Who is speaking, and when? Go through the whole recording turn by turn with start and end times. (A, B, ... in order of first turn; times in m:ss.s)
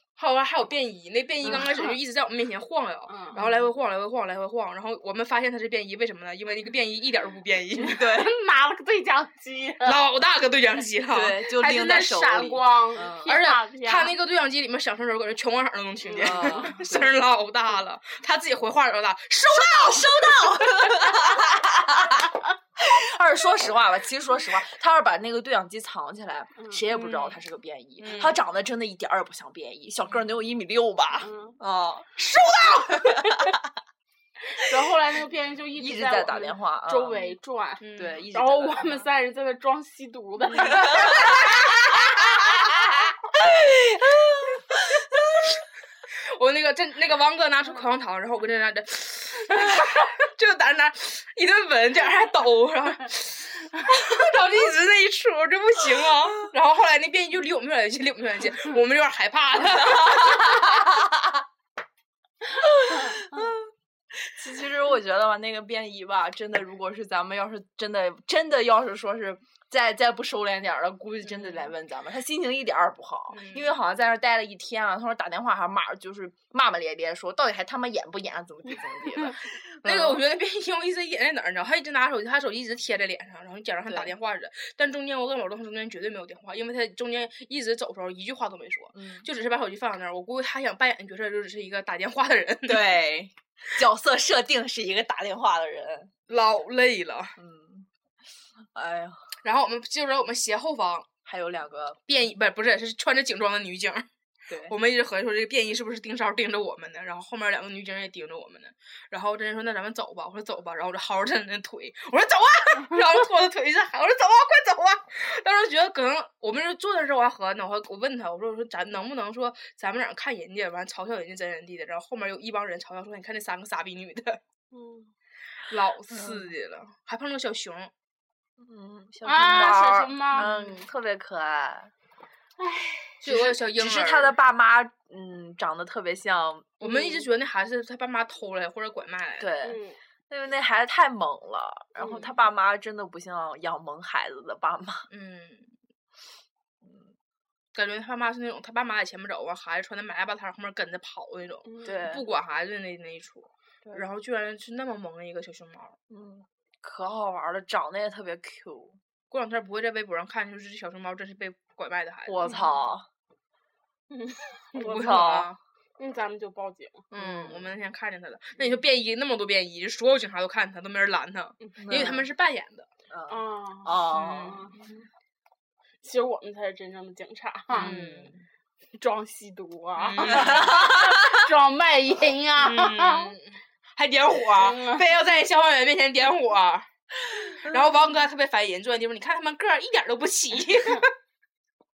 0:00.2-0:08.0 A
0:01.4-0:01.8 B
0:01.5-0:01.9 C
0:03.1-0:03.4 C
0:03.3-0:03.7 B
0:07.8-0:08.3 B
0:07.8-0:10.0 C
0:09.8-0:11.4 A
0:11.1-0:13.4 B
0:11.6-0:14.1 C
0:13.2-0:21.3 A
0:16.0-0:16.8 C
0:16.2-0:17.1 B
0:19.5-0:33.5 B
0:26.6-0:26.9 C
0:26.9-0:27.4 A
0:28.0-0:28.4 A
0:30.0-0:30.4 A
0:31.2-0:31.6 C
0:32.2-0:33.5 A
0:34.5-0:41.4 C
0:35.8-0:37.2 B
0:37.8-0:38.2 A
0:38.0-0:39.0 B
0:40.5-0:42.8 A
0:40.5-0:45.2 B
0:43.7-0:44.8 A
0:46.3-1:00.9 A
0:59.9-1:01.2 B
1:02.6-1:03.6 B
1:04.1-1:20.2 B
1:11.2-1:11.7 A
1:13.3-1:13.7 A
1:19.8-1:33.0 A
1:23.8-1:24.1 B
1:28.9-1:29.3 B
1:32.6-1:36.1 B
1:36.3-1:37.4 A
1:37.4-1:37.9 B
1:38.7-1:39.2 B
1:39.4-1:41.1 A
1:41.2-1:42.0 B
1:42.1-1:44.0 A
1:44.5-1:44.7 B
1:44.7-2:04.4 A
2:04.7-2:05.1 C
2:05.7-2:07.9 A
2:06.1-2:06.5 B
2:08.6-2:11.9 B
2:09.2-2:10.8 C
2:12.6-2:13.2 C
2:13.2-2:14.4 A
2:13.2-2:16.8 B
2:16.8-2:19.5 A
2:16.8-2:17.2 C
2:19.4-2:25.1 B
2:19.6-2:20.0 C
2:22.0-2:22.3 C
2:25.1-2:25.7 A
2:26.8-2:27.1 B
2:27.7-2:36.0 A
2:31.6-2:32.0 C
2:31.8-2:32.2 B
2:36.1-2:39.0 B
2:39.3-2:42.5 A
2:42.2-2:43.1 B
2:44.1-2:45.3 C
2:44.8-2:45.6 A
2:44.8-2:45.5 B
2:46.0-2:47.0 C
2:47.1-2:52.9 A
2:47.2-2:47.7 B
2:51.8-2:52.3 B
2:53.1-2:55.1 B
2:53.3-2:54.8 C
2:54.1-2:54.7 A
2:56.0-2:57.9 C
2:57.7-2:58.4 B
2:57.7-2:58.3 A
2:59.0-3:03.3 C
3:00.0-3:00.8 A
3:00.2-3:01.5 B
3:02.6-3:11.1 A
3:04.6-3:05.0 C